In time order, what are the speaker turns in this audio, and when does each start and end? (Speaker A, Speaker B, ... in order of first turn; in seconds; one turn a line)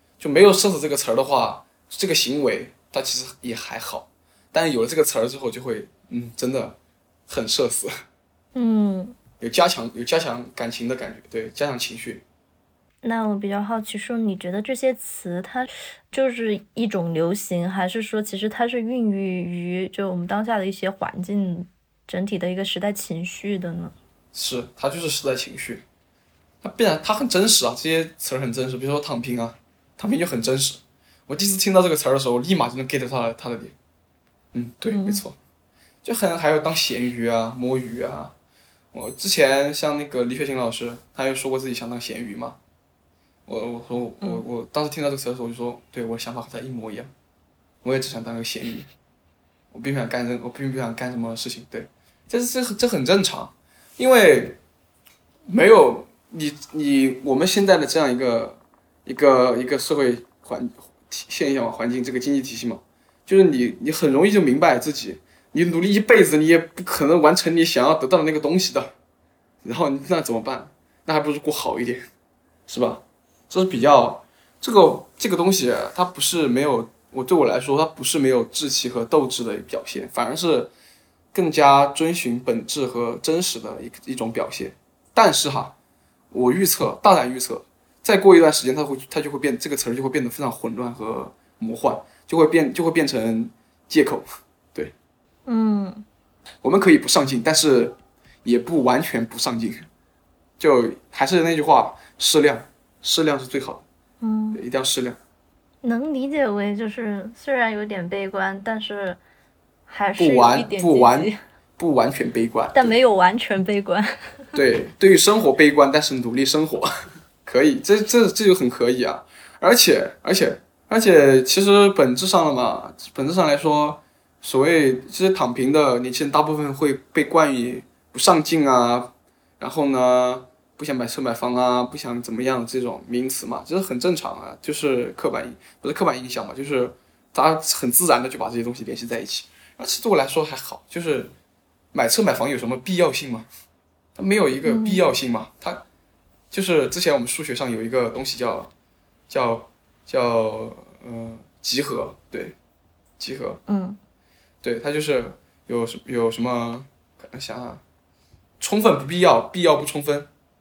Speaker A: 0.2-6.8
Speaker A: 7.3-7.9
Speaker B: 8.6-9.2
Speaker A: 9.4-12.2
Speaker B: 13.0-23.9
Speaker A: 24.3-25.8
Speaker A: 26.6-33.7
Speaker A: 34.5-35.4
Speaker B: 34.9-35.2
Speaker A: 36.0-38.4
Speaker A: 38.9-42.6
Speaker A: 43.5-47.1
Speaker A: 47.8-48.9
Speaker A: 49.7-54.6
Speaker A: 55.5-68.9
Speaker A: 69.6-72.1
Speaker A: 72.7-80.7
Speaker A: 81.3-85.8
Speaker A: 86.3-94.9
Speaker B: 95.5-96.0
Speaker A: 96.6-99.9
Speaker A: 100.6-103.8
Speaker B: 104.2-104.6
Speaker A: 104.5-105.2
Speaker B: 105.8-109.2
Speaker B: 109.9-111.4
Speaker A: 110.2-113.0
Speaker B: 112.8-114.5
Speaker A: 114.5-116.9
Speaker A: 117.4-141.3
Speaker A: 141.9-143.5
Speaker A: 144.2-145.8
Speaker B: 144.6-145.0
Speaker A: 146.5-148.7
Speaker A: 149.3-152.6
Speaker A: 153.2-153.6
Speaker B: 153.7-154.0
Speaker A: 154.6-157.8
Speaker A: 158.6-160.3